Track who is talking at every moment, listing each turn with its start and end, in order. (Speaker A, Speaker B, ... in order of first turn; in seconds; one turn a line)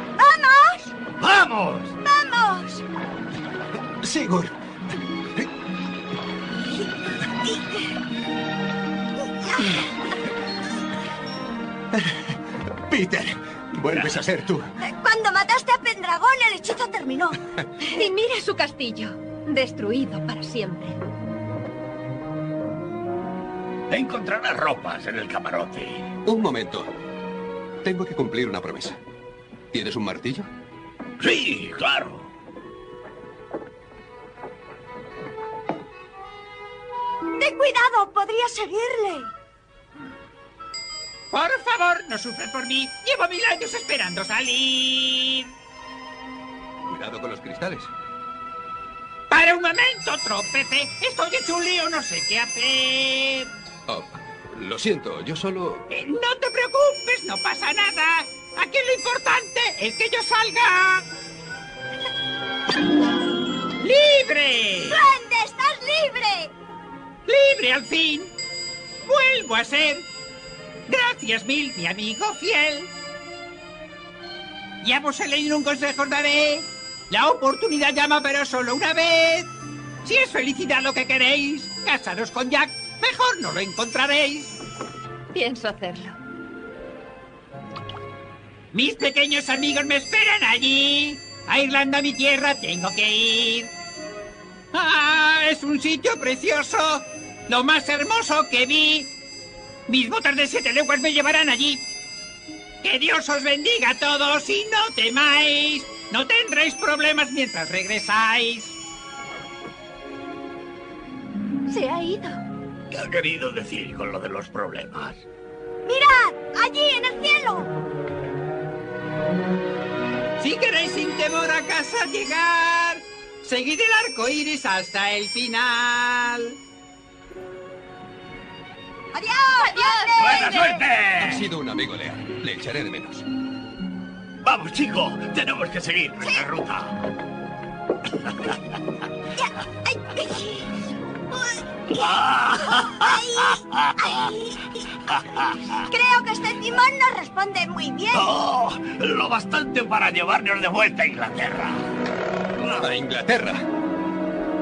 Speaker A: 0.2-0.9
Speaker B: 1.2-1.9
Speaker A: 2.0-2.8
Speaker C: 4.0-4.5
Speaker A: 7.5-7.9
Speaker C: 12.9-14.7
Speaker A: 14.8-17.4
Speaker D: 17.9-21.0
Speaker B: 23.9-26.1
Speaker C: 26.2-26.9
Speaker C: 27.8-29.0
Speaker C: 29.7-30.5
Speaker B: 31.2-32.3
Speaker A: 37.4-39.3
Speaker E: 41.3-45.5
Speaker C: 46.9-47.9
Speaker E: 49.3-53.5
Speaker C: 53.9-55.9
Speaker E: 55.9-61.1
Speaker E: 63.8-65.0
Speaker A: 64.9-66.5
Speaker E: 67.3-68.3
Speaker E: 69.1-70.1
Speaker E: 70.9-72.9
Speaker E: 74.8-79.5
Speaker E: 80.0-84.5
Speaker D: 85.3-86.2
Speaker E: 88.7-93.7
Speaker E: 94.7-99.1
Speaker E: 99.9-101.8
Speaker E: 102.8-108.8
Speaker D: 111.7-112.4
Speaker B: 112.9-115.2
Speaker A: 115.9-117.7
Speaker E: 120.4-126.6
Speaker A: 129.1-130.7
Speaker D: 129.8-130.7
Speaker B: 130.2-131.4
Speaker C: 131.2-133.3
Speaker B: 134.4-136.9
Speaker A: 139.4-140.7
Speaker A: 141.3-142.1
Speaker B: 141.9-143.1
Speaker A: 142.9-143.4
Speaker A: 144.0-144.6
Speaker A: 145.9-148.3
Speaker B: 148.2-151.8
Speaker C: 152.8-153.7